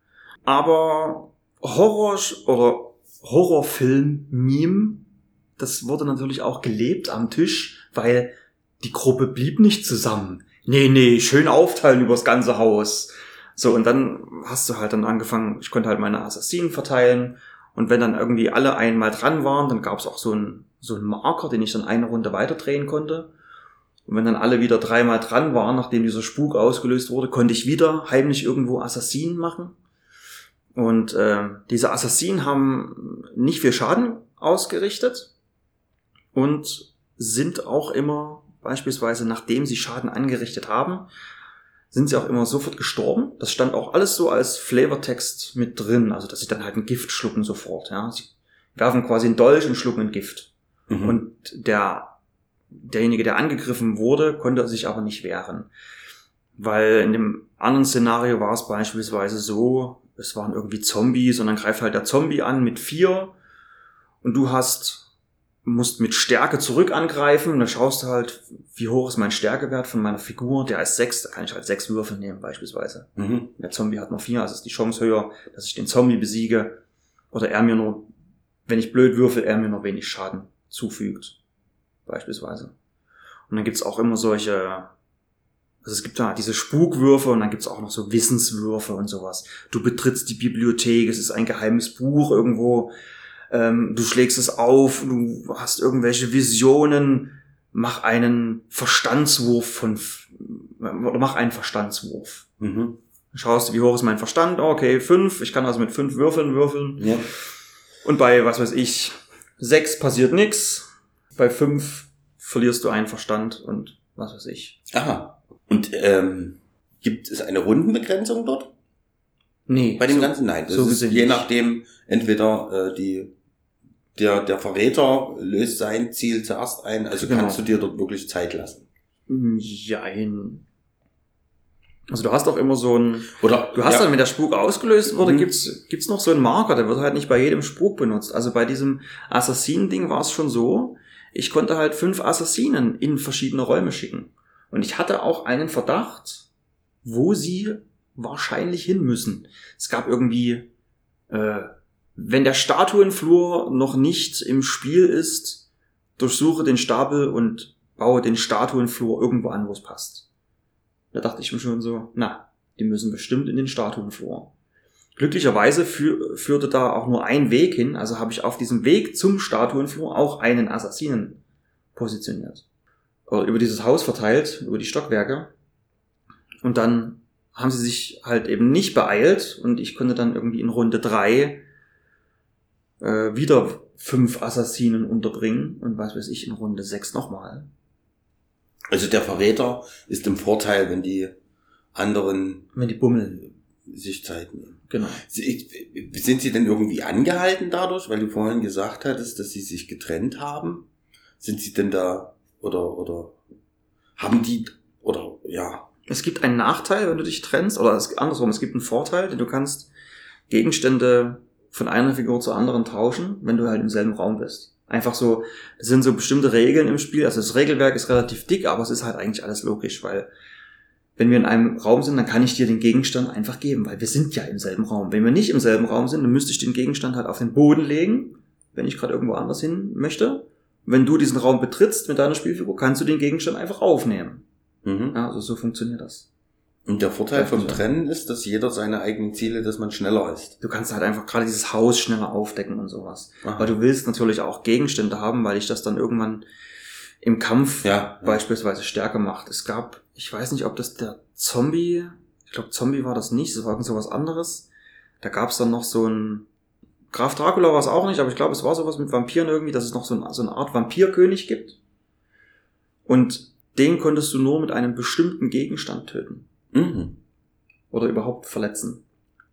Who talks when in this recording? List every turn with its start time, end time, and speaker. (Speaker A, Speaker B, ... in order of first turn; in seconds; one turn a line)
Speaker A: 0.5-23.3
Speaker A: 24.1-29.8
Speaker A: 30.7-35.3
Speaker A: 36.3-41.1
Speaker A: 41.9-50.5
Speaker B: 50.9-51.2
Speaker A: 51.0-52.2
Speaker A: 52.7-55.7
Speaker A: 56.5-63.3
Speaker A: 64.2-65.1
Speaker A: 65.6-76.8
Speaker B: 73.2-73.5
Speaker A: 77.3-78.1
Speaker A: 78.7-81.4
Speaker A: 82.0-82.7
Speaker A: 83.5-84.9
Speaker A: 85.8-92.9
Speaker A: 93.5-102.5
Speaker B: 102.6-103.0
Speaker A: 103.3-107.3
Speaker B: 107.0-107.3
Speaker A: 108.0-114.8
Speaker B: 114.9-118.7
Speaker A: 119.7-121.5
Speaker B: 120.0-123.3
Speaker B: 124.2-128.8
Speaker A: 127.2-127.6
Speaker A: 129.3-130.6
Speaker A: 132.1-146.5
Speaker B: 133.3-134.1
Speaker B: 135.1-135.5
Speaker A: 147.0-150.7
Speaker A: 151.3-155.7
Speaker A: 156.2-160.3
Speaker A: 161.1-164.5
Speaker A: 165.2-171.4
Speaker A: 171.9-172.6
Speaker A: 173.3-175.5
Speaker A: 176.6-181.6
Speaker A: 183.0-187.7
Speaker B: 188.9-191.3
Speaker B: 191.9-192.7
Speaker A: 192.7-193.5
Speaker B: 193.8-200.9
Speaker A: 194.9-195.2
Speaker B: 201.4-203.4
Speaker B: 204.2-205.9
Speaker A: 206.1-209.9
Speaker A: 210.5-220.3
Speaker A: 221.2-234.4
Speaker B: 234.8-235.2
Speaker A: 235.1-236.3
Speaker B: 236.9-240.6
Speaker A: 237.3-237.8
Speaker A: 240.6-246.4
Speaker B: 243.4-243.7
Speaker A: 247.2-254.7
Speaker B: 247.8-248.4
Speaker A: 255.2-256.5
Speaker A: 257.1-261.8
Speaker A: 263.1-266.4
Speaker B: 266.7-267.2
Speaker A: 267.9-269.0